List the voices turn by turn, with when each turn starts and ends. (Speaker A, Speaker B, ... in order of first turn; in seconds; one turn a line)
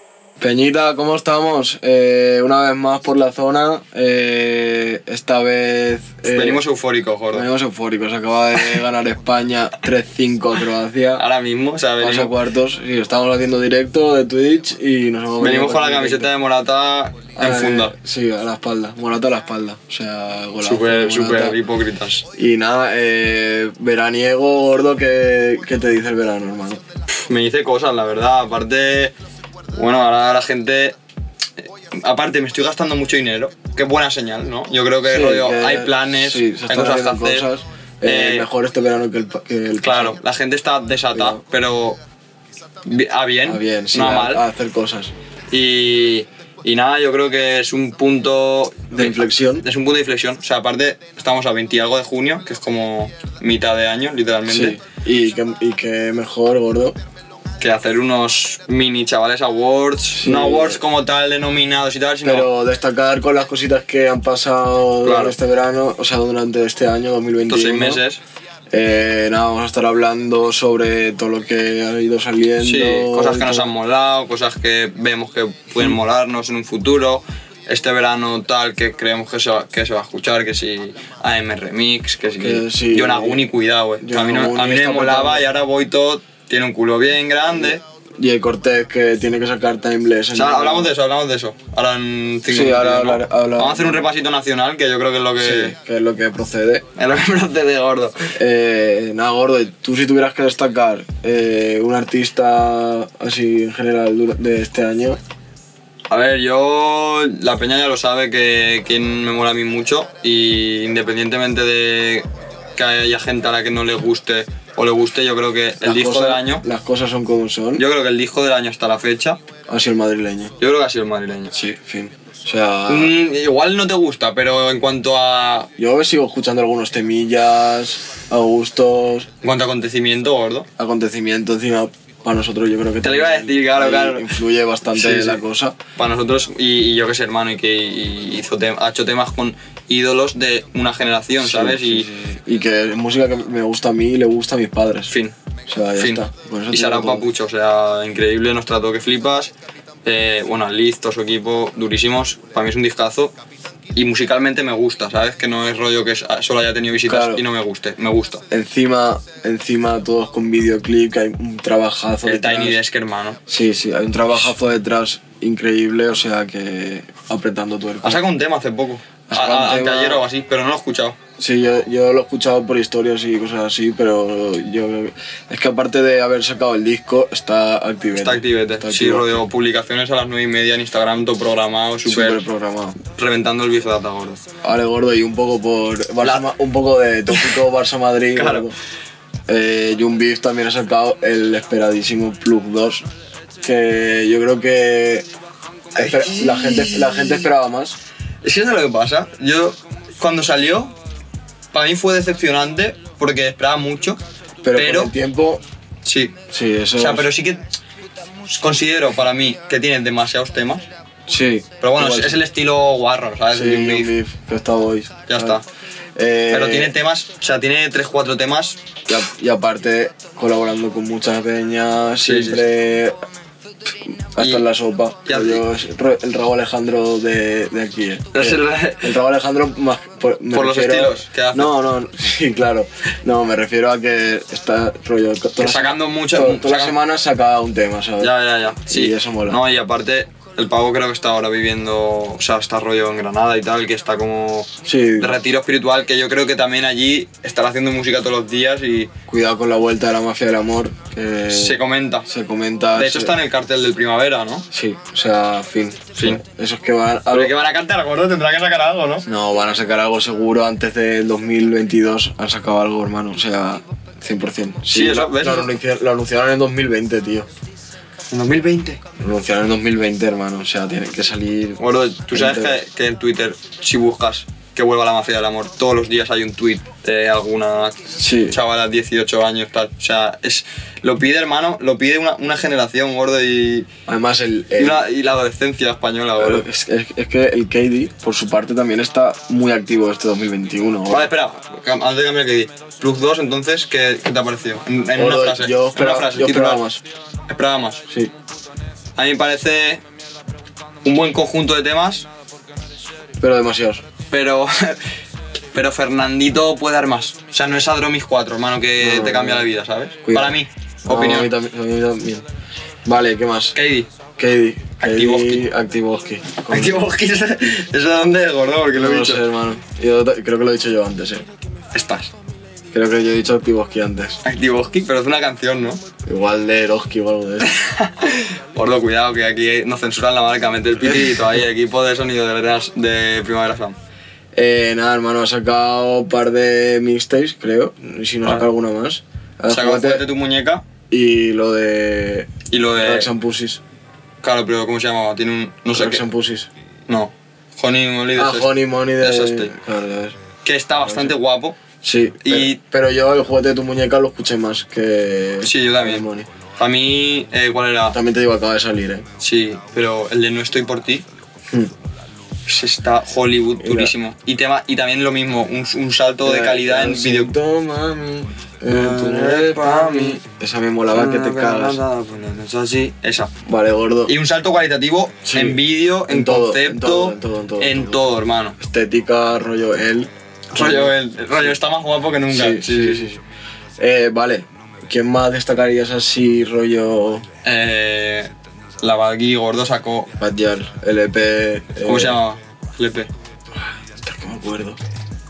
Speaker A: 0.4-6.6
Speaker B: 6.2-7.5
Speaker A: 7.3-11.2
Speaker B: 11.2-12.3
Speaker A: 12.0-16.3
Speaker B: 15.4-17.9
Speaker A: 17.4-21.6
Speaker B: 20.6-22.2
Speaker A: 22.3-26.8
Speaker B: 27.1-29.1
Speaker B: 29.7-31.0
Speaker B: 31.6-37.5
Speaker A: 35.0-40.2
Speaker B: 38.0-38.5
Speaker B: 39.8-42.0
Speaker A: 41.1-41.4
Speaker B: 42.8-44.5
Speaker A: 43.4-45.1
Speaker B: 45.5-54.8
Speaker A: 48.9-49.7
Speaker A: 54.5-57.0
Speaker B: 57.6-62.5
Speaker A: 60.1-60.8
Speaker A: 62.2-68.0
Speaker B: 65.0-65.3
Speaker B: 67.5-68.2
Speaker A: 68.7-73.7
Speaker B: 72.6-87.8
Speaker A: 82.4-83.4
Speaker A: 84.0-85.4
Speaker A: 87.5-90.9
Speaker B: 90.3-95.7
Speaker A: 92.5-94.1
Speaker A: 95.4-96.8
Speaker B: 97.0-98.3
Speaker A: 98.3-105.2
Speaker B: 106.1-116.6
Speaker A: 115.8-117.8
Speaker B: 117.8-119.4
Speaker A: 119.7-120.5
Speaker B: 120.6-121.5
Speaker A: 121.5-123.1
Speaker B: 122.9-125.7
Speaker A: 125.8-129.3
Speaker B: 129.4-130.7
Speaker A: 130.8-135.8
Speaker B: 133.0-134.3
Speaker B: 134.9-135.4
Speaker B: 136.0-142.1
Speaker A: 141.4-145.1
Speaker B: 145.1-145.3
Speaker A: 145.7-147.2
Speaker B: 146.0-149.5
Speaker B: 150.1-153.3
Speaker B: 153.9-158.4
Speaker A: 157.0-157.4
Speaker A: 158.5-162.8
Speaker B: 162.2-163.4
Speaker A: 163.5-168.2
Speaker B: 168.0-171.2
Speaker A: 169.3-170.2
Speaker A: 171.4-179.4
Speaker B: 178.2-182.4
Speaker A: 182.1-183.0
Speaker B: 183.1-184.4
Speaker A: 184.6-188.8
Speaker B: 186.2-186.5
Speaker B: 187.3-187.6
Speaker B: 188.3-188.7
Speaker A: 189.5-193.1
Speaker A: 193.6-195.3
Speaker A: 195.9-198.0
Speaker B: 196.0-197.5
Speaker B: 198.4-200.9
Speaker B: 201.7-204.2
Speaker A: 204.6-205.6
Speaker B: 204.7-205.1
Speaker B: 206.1-206.3
Speaker A: 206.5-207.3
Speaker B: 207.0-207.6
Speaker B: 208.5-210.9
Speaker A: 211.3-212.4
Speaker B: 211.8-214.1
Speaker A: 213.5-215.6
Speaker B: 215.3-215.7
Speaker A: 216.2-216.9
Speaker B: 216.5-218.9
Speaker A: 219.1-223.2
Speaker B: 222.2-222.6
Speaker A: 223.9-238.3
Speaker B: 224.4-224.7
Speaker B: 225.2-225.7
Speaker B: 228.3-229.2
Speaker B: 230.5-231.7
Speaker B: 235.6-236.9
Speaker B: 238.2-249.1
Speaker A: 238.9-239.6
Speaker A: 244.8-245.4
Speaker A: 249.3-253.3
Speaker B: 251.5-252.3
Speaker B: 253.0-254.7
Speaker A: 254.7-257.5
Speaker B: 257.3-259.2
Speaker A: 259.2-267.5
Speaker B: 264.9-265.7
Speaker B: 268.3-269.0
Speaker A: 269.2-271.8
Speaker B: 271.8-283.9
Speaker A: 272.3-272.8
Speaker A: 278.1-278.6
Speaker A: 284.1-285.0
Speaker B: 284.8-286.6
Speaker A: 286.4-291.3
Speaker B: 291.1-296.8
Speaker A: 295.1-297.0
Speaker B: 297.5-298.0
Speaker B: 299.2-300.0
Speaker B: 301.0-302.3
Speaker A: 303.4-304.0
Speaker B: 304.3-305.0
Speaker B: 305.7-311.5
Speaker A: 309.0-309.7
Speaker A: 310.2-312.4
Speaker A: 313.0-313.8
Speaker B: 313.8-314.1
Speaker A: 314.4-317.1
Speaker B: 315.0-315.6
Speaker B: 316.7-319.4
Speaker A: 318.9-321.5
Speaker B: 321.9-322.3
Speaker A: 322.9-324.4
Speaker B: 324.4-326.0
Speaker A: 326.2-327.7
Speaker B: 327.6-334.0
Speaker A: 331.0-331.4
Speaker A: 334.5-340.2
Speaker B: 339.7-340.8
Speaker A: 341.1-343.8
Speaker B: 342.7-343.3
Speaker B: 344.4-346.2
Speaker A: 345.9-346.7
Speaker B: 347.1-349.7
Speaker A: 348.3-350.4
Speaker B: 350.6-351.8
Speaker A: 351.0-351.4
Speaker A: 352.0-356.5
Speaker B: 352.4-352.8
Speaker B: 355.6-356.2
Speaker B: 356.8-358.2
Speaker A: 358.1-359.3
Speaker B: 359.4-361.2
Speaker A: 361.7-361.9
Speaker B: 362.7-367.5
Speaker A: 363.8-364.1
Speaker A: 366.4-372.0
Speaker B: 368.9-370.4
Speaker B: 371.1-373.5
Speaker A: 373.6-374.3
Speaker B: 374.3-378.8
Speaker A: 375.4-378.2
Speaker A: 378.8-381.7
Speaker B: 380.7-383.3
Speaker A: 382.5-383.4
Speaker A: 384.0-387.4
Speaker B: 387.6-390.3
Speaker A: 390.4-392.4
Speaker B: 392.0-393.3
Speaker A: 393.7-395.0